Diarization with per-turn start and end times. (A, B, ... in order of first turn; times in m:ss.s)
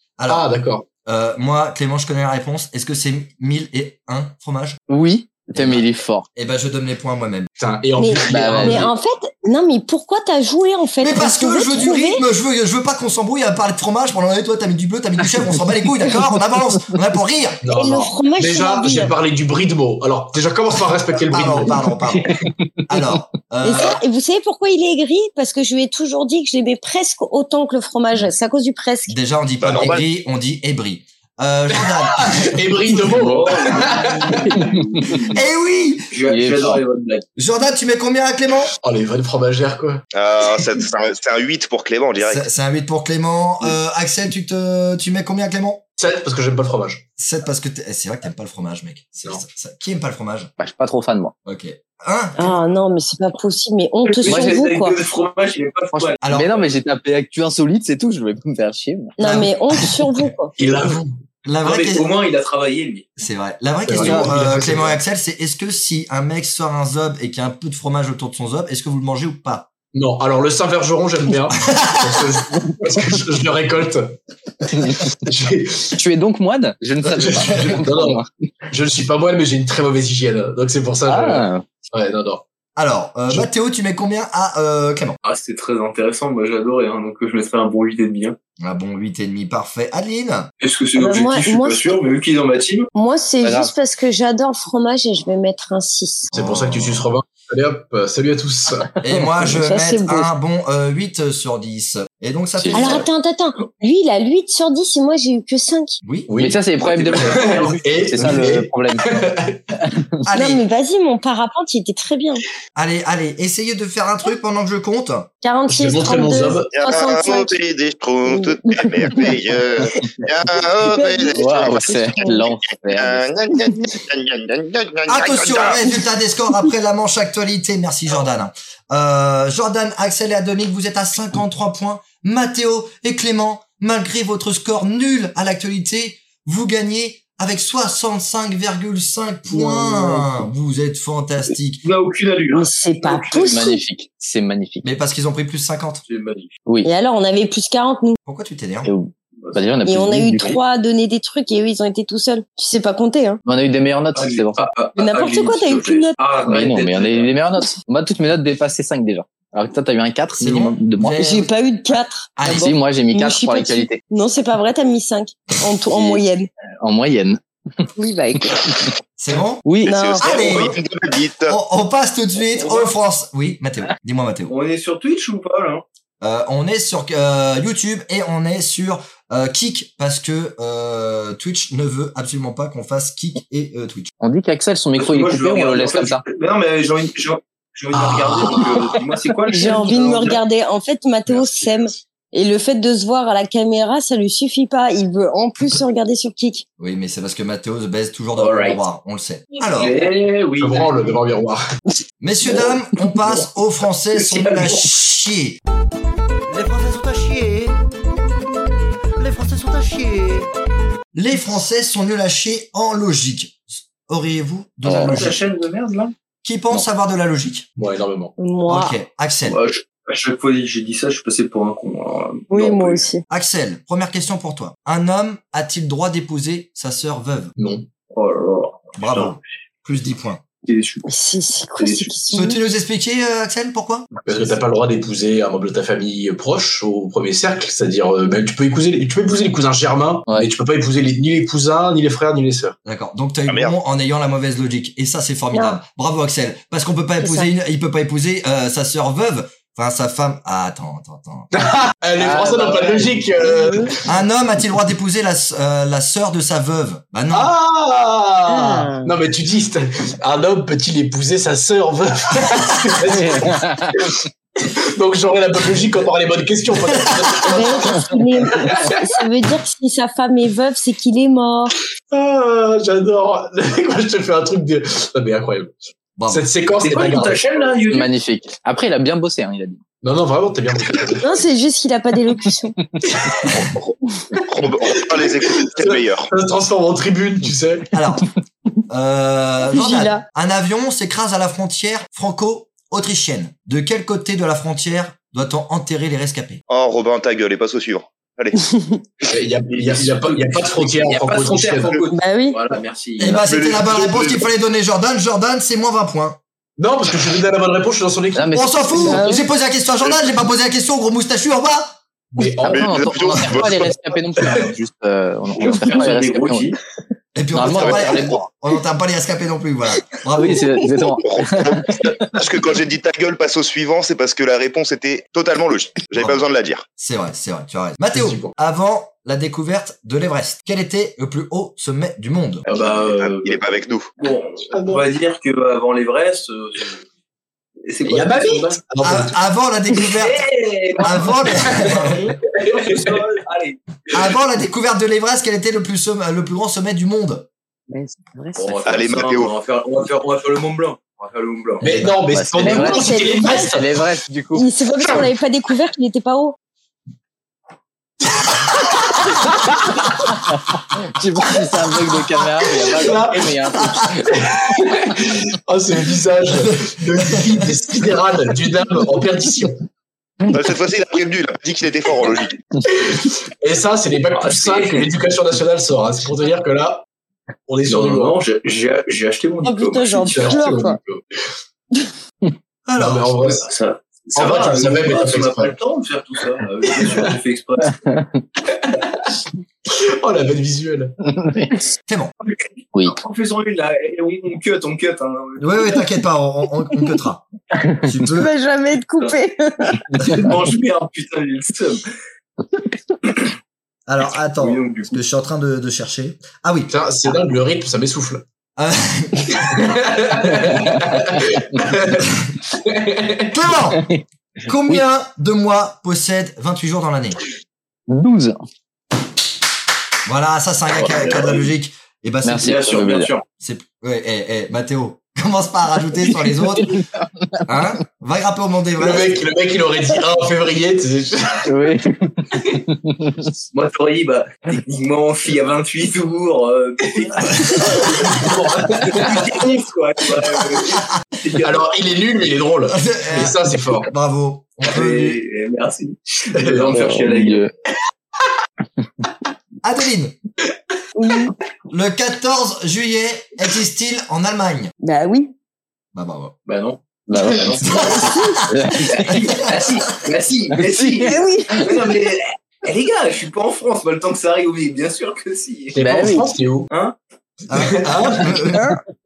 0:00.2-0:00.4 A
0:00.3-0:00.9 B
0:01.0-0:04.8 A
0:04.9-0:06.3 C
0:05.5-0:07.5 A
0:07.6-0:08.9 B
0:08.0-0:12.2 D
0:08.3-0:08.9 C
0:11.0-0:17.6 A
0:15.2-0:16.3 C
0:17.6-0:21.8 B
0:17.7-0:19.1 D
0:21.3-0:22.3 A
0:22.1-0:23.2 C
0:22.9-0:24.0 A
0:23.6-0:29.2 D
0:29.1-0:32.6 A
0:29.6-0:30.0 E
0:31.8-0:34.6 B
0:33.1-0:35.4 F
0:34.4-0:35.2 C
0:35.3-0:36.1 A
0:36.1-0:37.3 F
0:36.3-0:36.8 C
0:37.4-0:38.7 A
0:38.8-0:40.0 B
0:40.1-0:42.5 E
0:42.2-0:45.8 A
0:46.0-0:47.0 B
0:47.2-0:50.5 A
0:50.6-0:51.3 C
0:51.4-0:52.6 A
0:52.4-0:55.0 D
0:54.1-0:56.2 F
0:54.2-0:54.6 C
0:55.9-0:59.2 C
0:56.2-0:56.7 A
0:59.2-1:00.6 D
0:59.2-0:59.6 A
1:00.6-1:01.2 B
1:01.4-1:02.1 A
1:01.6-1:03.1 F
1:03.2-1:09.7 A
1:03.9-1:05.0 B
1:04.0-1:04.3 C
1:09.9-1:14.2 B
1:11.6-1:12.3 A
1:14.7-1:16.0 B
1:14.8-1:15.1 C
1:16.0-1:18.3 C
1:17.2-1:22.4 B
1:21.1-1:21.8 C
1:22.8-1:25.2 A
1:25.2-1:28.4 F
1:28.6-1:30.5 A
1:30.6-1:32.9 F
1:31.0-1:32.0 D
1:33.0-1:36.3 D
1:33.4-1:33.7 C
1:36.3-1:37.1 A
1:36.3-1:38.9 B
1:39.0-1:43.1 A
1:39.6-1:40.3 D
1:42.6-1:43.0 C
1:42.7-1:46.0 D
1:46.0-1:46.3 A
1:46.3-1:49.6 B
1:46.4-1:49.2 C
1:48.2-1:48.5 A
1:49.8-1:50.2 C
1:50.2-1:50.6 A
1:50.3-1:52.4 D
1:52.8-1:55.3 A
1:55.4-1:57.6 D
1:55.7-1:56.7 B
1:56.7-2:05.9 E
1:58.3-1:59.3 D
2:00.8-2:02.5 D
2:01.3-2:03.2 C
2:05.1-2:21.8 A
2:19.5-2:20.3 C
2:21.8-2:23.5 F
2:22.5-2:23.8 D
2:23.4-2:24.9 C
2:24.8-2:26.0 A
2:26.1-2:26.6 F
2:26.8-2:28.2 D
2:28.2-2:28.9 A
2:28.8-2:30.6 C
2:29.8-2:33.4 D
2:33.4-2:34.7 C
2:34.2-2:37.3 F
2:35.0-2:36.2 D
2:36.4-2:41.2 C
2:40.4-2:41.5 A
2:41.2-2:46.5 D
2:42.4-2:42.8 A
2:42.4-2:44.0 C
2:45.9-2:46.2 C
2:46.8-2:47.4 C
2:48.0-2:48.7 D
2:49.2-2:49.6 A
2:49.6-2:49.9 C
2:49.8-2:51.6 E
2:49.8-2:50.3 D
2:50.2-2:50.8 A
2:51.5-2:54.5 A
2:52.6-2:52.9 F
2:54.5-2:55.8 F
2:56.2-3:04.1 A
3:04.2-3:06.2 C
3:05.0-3:10.4 F
3:07.9-3:08.7 B
3:09.5-3:16.6 D
3:16.8-3:20.0 A
3:18.4-3:18.8 F
3:19.6-3:21.2 F
3:20.6-3:21.6 B
3:22.2-3:25.6 A
3:24.2-3:24.9 F
3:26.6-3:27.6 G
3:26.6-3:27.7 A
3:29.2-3:30.5 G
3:31.1-3:35.4 A
3:34.8-3:35.2 C
3:35.0-3:36.1 F
3:36.4-3:37.7 A
3:37.8-3:38.3 B
3:38.4-3:39.0 D
3:38.7-3:39.6 A
3:39.5-3:43.0 F
3:42.5-3:43.2 D
3:43.3-3:47.5 A
3:47.6-3:47.9 B
3:48.1-3:49.4 F
3:49.0-3:50.4 A
3:50.6-3:51.1 F
3:51.1-3:52.6 D
3:51.8-3:52.1 F
3:52.3-3:54.1 A
3:54.3-4:02.8 B
4:02.8-4:11.5 A
4:03.5-4:03.8 E
4:05.5-4:05.8 D
4:07.2-4:07.5 D
4:11.5-4:14.0 B
4:12.2-4:13.4 C
4:14.1-4:17.5 A
4:17.3-4:29.0 B
4:18.5-4:19.1 D
4:23.1-4:24.1 C
4:27.5-4:31.8 D
4:32.1-4:35.7 B
4:36.2-4:36.4 A
4:36.3-4:37.7 B
4:36.8-4:38.1 F
4:37.9-4:39.8 C
4:40.0-4:41.4 B
4:41.2-4:42.8 D
4:43.0-4:43.6 B
4:44.5-4:46.3 E
4:44.9-4:47.9 B
4:47.9-4:48.3 A
4:48.9-4:56.6 A
4:49.7-4:50.2 D
4:56.7-4:58.6 E
4:58.7-4:59.0 D
4:59.2-5:03.4 F
4:59.3-5:02.0 B
5:02.2-5:02.6 D
5:03.2-5:06.4 A
5:03.2-5:04.4 E
5:06.8-5:08.6 B
5:08.4-5:09.4 C
5:08.5-5:12.0 A
5:09.1-5:09.4 D
5:12.4-5:13.0 B
5:12.6-5:16.8 C
5:12.6-5:13.9 E
5:14.4-5:14.7 B
5:15.6-5:16.8 F
5:17.4-5:20.8 A
5:17.5-5:18.5 C
5:17.7-5:18.3 E
5:20.4-5:22.3 C
5:21.2-5:26.9 E
5:26.2-5:26.4 A
5:27.0-5:32.6 A
5:28.1-5:28.6 B
5:32.7-5:33.6 F
5:32.7-5:34.1 E
5:34.2-5:37.0 F
5:34.7-5:35.1 B
5:37.8-5:38.8 F
5:38.0-5:39.4 B
5:39.0-5:40.4 A
5:40.0-5:43.8 F
5:41.0-5:42.2 A
5:41.7-5:43.1 B
5:44.1-5:47.5 A
5:47.9-5:48.8 D
5:48.6-5:51.8 F
5:48.8-5:49.5 E
5:51.8-5:54.1 B
5:52.2-5:54.7 C
5:52.6-5:53.7 D
5:54.5-5:56.6 D
6:00.5-6:04.5 C
6:02.7-6:03.6 B
6:04.3-6:09.8 B
6:07.2-6:07.7 A
6:10.5-6:12.6 E
6:12.9-6:17.0 B
6:14.4-6:15.1 F
6:17.7-6:18.4 B
6:17.9-6:20.6 F
6:19.6-6:21.0 D
6:20.2-6:21.2 B
6:22.9-6:23.6 A
6:23.0-6:23.7 B
6:23.6-6:28.0 F
6:24.4-6:25.8 B
6:27.0-6:27.3 B
6:27.8-6:28.4 C
6:28.7-6:29.3 B
6:29.9-6:31.2 B
6:31.2-6:31.9 C
6:32.4-6:36.0 F
6:35.6-6:37.5 A
6:37.8-6:38.1 C
6:38.0-6:38.5 A
6:38.4-6:40.1 D
6:40.2-6:42.1 F
6:43.2-6:43.5 F
6:44.1-6:46.9 A
6:44.6-6:45.2 F
6:46.9-6:48.4 B
6:48.8-6:49.8 A
6:49.6-6:53.6 B
6:53.5-6:54.1 A
6:54.7-6:57.4 A
6:58.1-6:58.6 C
7:00.2-7:03.0 A
7:01.2-7:01.5 F
7:02.4-7:03.3 C
7:02.6-7:03.4 F
7:03.6-7:07.0 A
7:06.7-7:07.6 C
7:07.7-7:09.4 A
7:09.0-7:11.7 B
7:11.7-7:13.5 C
7:13.7-7:21.9 F
7:18.0-7:19.5 B
7:21.6-7:24.1 B
7:22.9-7:25.4 A
7:24.8-7:27.7 F
7:26.5-7:27.0 B
7:26.9-7:27.7 C
7:29.8-7:30.4 A
7:31.2-7:31.5 D
7:31.9-7:34.9 A
7:35.0-7:35.5 D
7:36.1-7:36.5 A
7:36.7-7:46.0 F
7:37.3-7:39.4 C
7:37.8-7:39.8 A
7:40.8-7:41.8 C
7:41.2-7:41.9 D
7:46.0-7:46.9 B
7:46.0-7:46.5 C
7:46.9-7:47.2 F
7:47.7-7:48.9 A
7:47.8-7:48.5 B
7:48.7-7:49.0 D